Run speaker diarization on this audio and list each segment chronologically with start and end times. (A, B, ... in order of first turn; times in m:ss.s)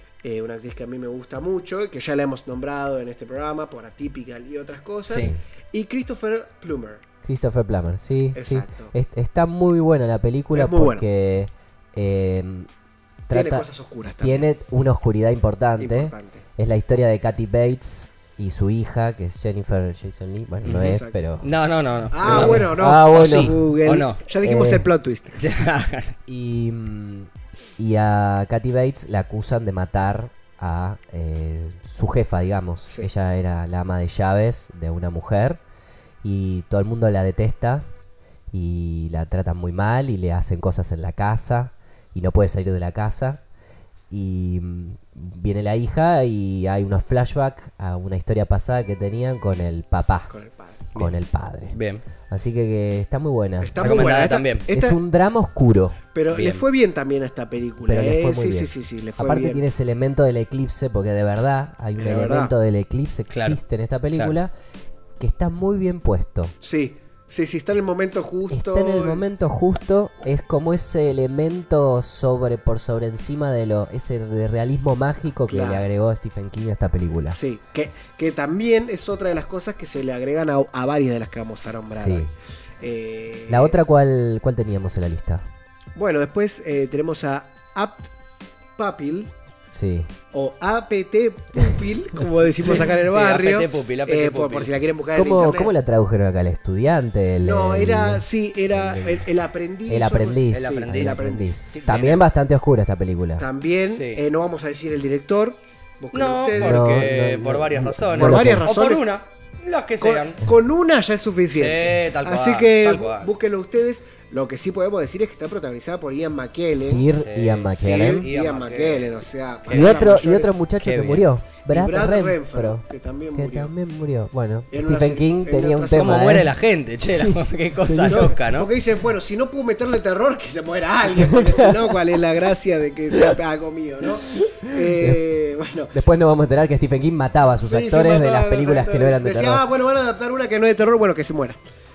0:00.2-0:07.0 A
0:05.1-0:05.4 B
0:07.2-0:12.7 B
0:08.3-0:08.9 A
0:10.6-0:11.0 A
0:13.3-0:13.7 B
0:13.3-0:14.5 A
0:14.2-0:21.5 B
0:15.8-0:16.4 A
0:20.6-0:24.2 C
0:20.8-0:21.2 A
0:22.1-0:25.4 A
0:22.2-0:23.7 B
0:24.4-0:24.9 B
0:25.4-0:26.2 C
0:26.3-0:35.6 B
0:32.8-0:33.1 A
0:36.2-0:37.9 B
0:38.5-0:43.4 B
0:44.1-0:50.3 B
0:50.3-0:50.8 A
0:51.0-0:54.2 B
0:51.7-0:52.0 C
0:53.6-0:55.0 A
0:53.8-0:54.7 C
0:54.7-0:56.0 B
0:56.1-0:59.6 A
0:56.3-0:56.6 C
0:57.9-1:04.5 B
1:02.0-1:02.5 A
1:03.3-1:03.6 C
1:05.2-1:06.6 B
1:06.6-1:09.2 A
1:08.5-1:17.4 B
1:15.5-1:15.9 A
1:17.3-1:23.8 A
1:21.9-1:22.3 B
1:23.5-1:25.4 B
1:26.0-1:28.1 A
1:28.8-1:29.3 A
1:29.7-1:30.1 B
1:30.3-1:35.7 A
1:32.6-1:34.7 C
1:35.1-1:39.3 B
1:37.4-1:41.6 A
1:39.9-1:43.5 B
1:40.5-1:42.2 C
1:43.4-1:47.0 A
1:43.9-1:44.2 C
1:46.1-1:50.4 C
1:46.5-1:48.7 B
1:48.2-1:49.1 A
1:50.0-1:57.1 A
1:51.6-1:53.3 C
1:56.7-1:58.3 B
1:57.2-1:59.2 C
1:57.8-2:00.5 A
1:59.7-2:00.2 C
1:59.7-2:08.3 B
2:00.8-2:01.3 C
2:01.7-2:03.7 A
2:04.7-2:06.4 A
2:05.9-2:08.7 C
2:08.1-2:16.0 A
2:11.2-2:11.9 B
2:14.3-2:15.2 B
2:15.9-2:19.6 B
2:17.6-2:21.6 A